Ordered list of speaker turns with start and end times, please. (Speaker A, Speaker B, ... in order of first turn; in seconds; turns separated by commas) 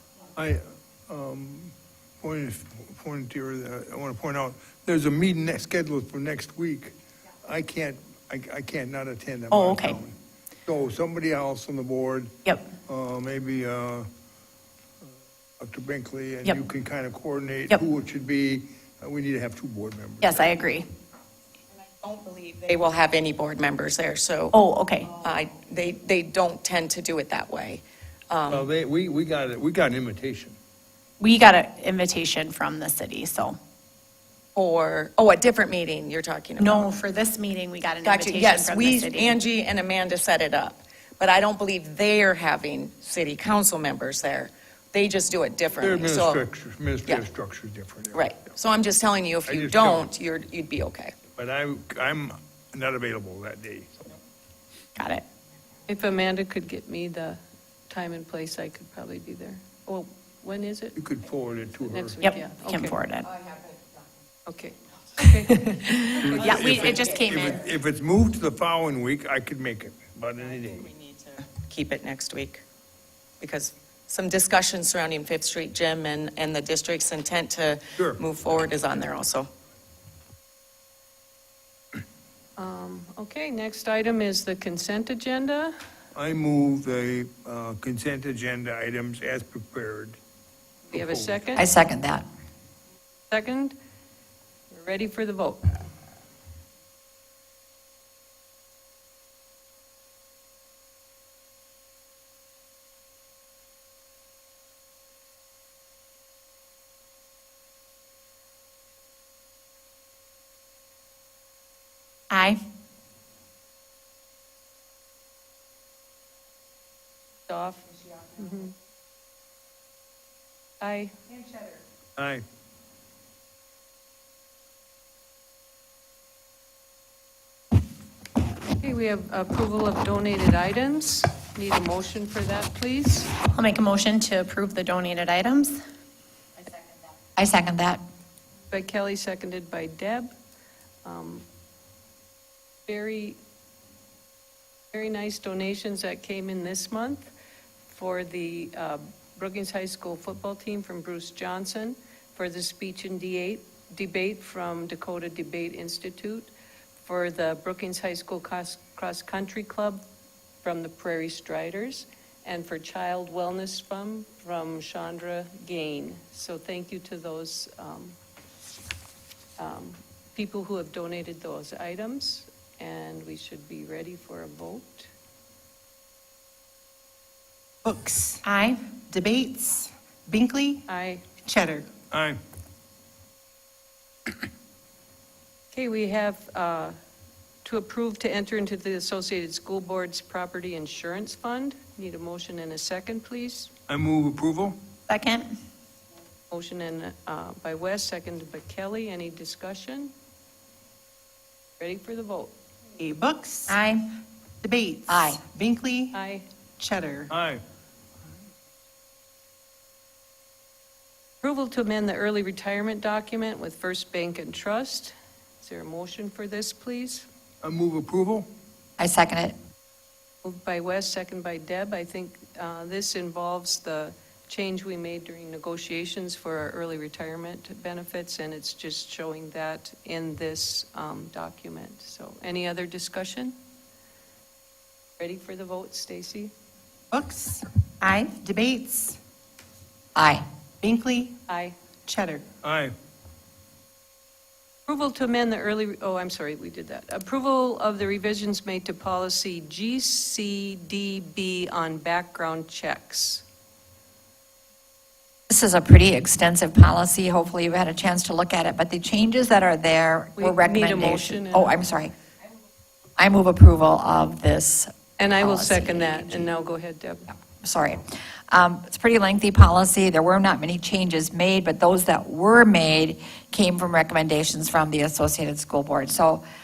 Speaker A: 0.3-10.2, Speaker B: 9.5-10.0, Speaker A: 10.7-14.1, Speaker A: 15.6-20.4, Speaker B: 20.2-20.9, Speaker C: 22.0-24.6, Speaker B: 24.5-25.1, Speaker C: 25.2-28.7, Speaker A: 28.5-30.6, Speaker B: 31.2-33.6, Speaker C: 34.6-37.0, Speaker B: 36.6-39.4, Speaker C: 38.0-46.4, Speaker A: 45.8-48.3, Speaker C: 48.1-51.1, Speaker A: 49.5-50.1, Speaker A: 51.4-54.1, Speaker B: 55.0-55.2, Speaker D: 55.9-57.4, Speaker D: 57.9-61.0, Speaker A: 61.0-62.2, Speaker D: 61.9-63.1, Speaker B: 62.2-63.3, Speaker D: 64.5-66.0, Speaker A: 66.2-70.9, Speaker C: 66.2-67.4, Speaker B: 66.3-67.7, Speaker C: 70.4-72.6, Speaker C: 73.4-79.5, Speaker D: 82.6-85.7, Speaker A: 86.1-90.2, Speaker D: 90.9-91.7, Speaker A: 90.9-91.4, Speaker E: 91.5-92.2, Speaker D: 93.3-93.8, Speaker D: 94.7-95.8, Speaker B: 112.3-112.6, Speaker D: 117.5-118.7, Speaker D: 120.8-121.1, Speaker F: 121.3-121.8, Speaker A: 122.2-122.4, Speaker D: 128.8-133.4, Speaker B: 133.4-135.8, Speaker E: 137.3-138.0, Speaker D: 138.7-140.3, Speaker D: 141.1-141.4, Speaker D: 142.9-143.4, Speaker D: 144.9-147.3, Speaker D: 147.9-160.0, Speaker D: 160.6-168.2, Speaker D: 169.6-175.1, Speaker F: 177.8-180.8, Speaker D: 180.9-181.3, Speaker F: 181.4-181.9, Speaker A: 182.1-182.4, Speaker D: 185.7-186.9, Speaker D: 187.6-193.7, Speaker A: 193.9-194.8, Speaker B: 195.1-195.5, Speaker D: 196.5-200.1, Speaker D: 201.8-202.5, Speaker F: 203.0-203.8, Speaker F: 204.6-206.2, Speaker E: 205.1-205.4, Speaker D: 206.1-206.4, Speaker F: 206.8-207.3, Speaker A: 207.3-207.6, Speaker D: 211.4-217.3, Speaker A: 217.6-218.5, Speaker E: 219.0-219.6, Speaker D: 220.4-233.5, Speaker D: 235.2-236.5, Speaker F: 237.1-239.2, Speaker E: 240.2-240.4, Speaker F: 240.8-241.4, Speaker D: 241.5-241.8, Speaker F: 242.1-242.5, Speaker A: 242.6-242.9, Speaker D: 244.9-253.4, Speaker E: 255.5-262.1, Speaker D: 260.4-261.8, Speaker E: 263.2-266.5, Speaker D: 265.2-267.3, Speaker E: 267.5-276.4